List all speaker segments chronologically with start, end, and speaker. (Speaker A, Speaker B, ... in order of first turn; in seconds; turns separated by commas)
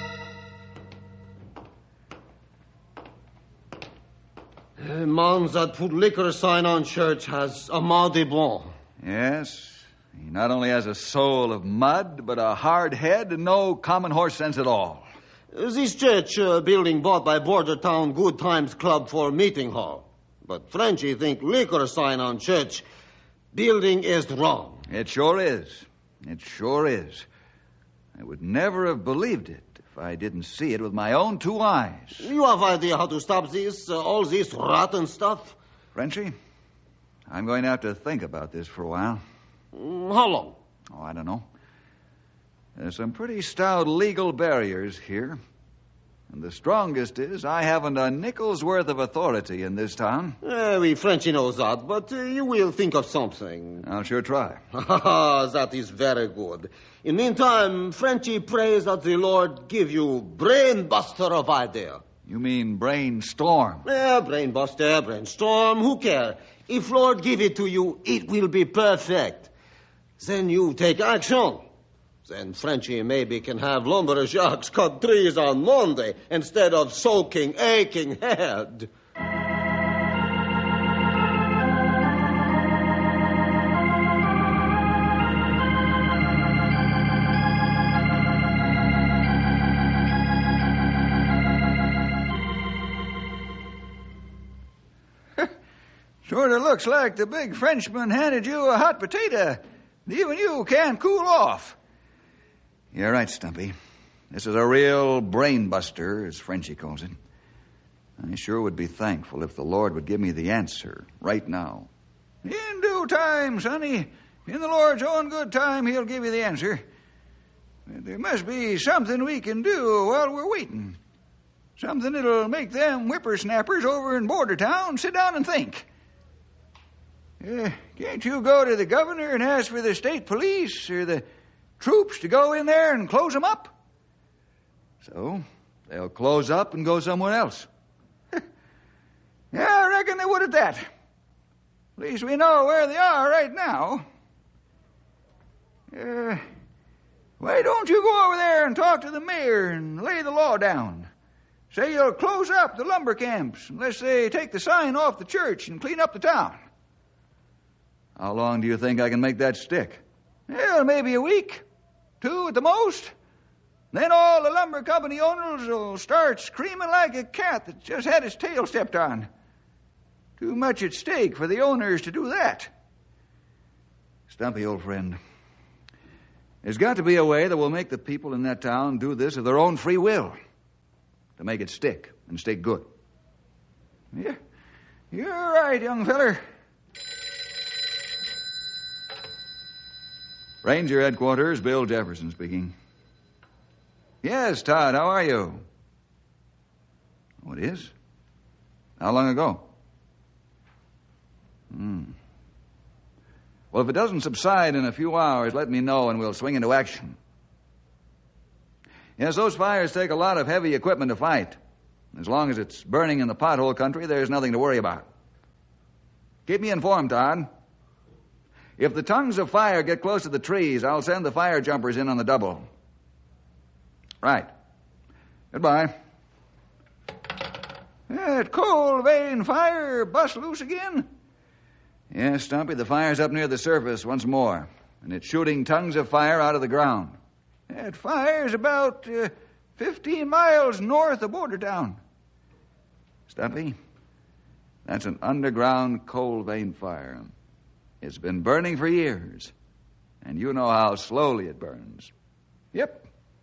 Speaker A: 4.8-8.7, Speaker B: 9.0-15.1, Speaker A: 15.5-22.8, Speaker A: 23.5-24.9, Speaker B: 24.9-27.2, Speaker B: 28.1-32.3, Speaker A: 32.2-35.6, Speaker B: 35.9-36.3, Speaker B: 37.3-39.2, Speaker A: 39.7-40.6, Speaker B: 40.9-41.5, Speaker B: 42.8-45.4, Speaker B: 46.3-50.4, Speaker A: 50.4-53.8, Speaker B: 53.8-54.6, Speaker A: 54.7-62.0, Speaker B: 62.2-63.8, Speaker A: 63.8-69.5, Speaker A: 70.2-71.6, Speaker A: 72.2-78.9, Speaker B: 96.2-101.8, Speaker B: 102.9-103.7, Speaker B: 104.3-107.2, Speaker B: 108.2-111.9, Speaker B: 112.4-116.8, Speaker B: 117.9-121.0, Speaker B: 121.8-125.9, Speaker B: 127.4-131.2, Speaker B: 131.8-133.7, Speaker B: 135.0-137.7, Speaker B: 139.5-140.9, Speaker B: 142.0-144.1, Speaker B: 145.9-146.4, Speaker B: 147.4-151.1, Speaker B: 151.7-156.6, Speaker B: 158.2-161.6, Speaker B: 162.2-163.1, Speaker B: 163.9-169.3, Speaker B: 170.4-172.7, Speaker B: 174.3-175.2, Speaker B: 176.6-180.3, Speaker B: 181.4-182.9, Speaker B: 184.1-184.4, Speaker B: 185.1-186.4, Speaker B: 190.6-192.7, Speaker B: 194.2-195.6, Speaker B: 197.4-197.9, Speaker B: 199.0-199.6, Speaker B: 201.7-202.2, Speaker B: 203.7-207.2, Speaker B: 209.2-211.6, Speaker B: 212.1-215.1, Speaker B: 216.5-217.5, Speaker B: 218.8-222.7, Speaker B: 224.2-224.5, Speaker B: 225.5-225.9, Speaker B: 228.1-231.1, Speaker B: 232.1-237.2, Speaker B: 237.7-242.0, Speaker B: 243.3-243.8, Speaker B: 244.8-247.3, Speaker B: 248.0-249.5, Speaker B: 250.2-252.1, Speaker B: 252.7-253.1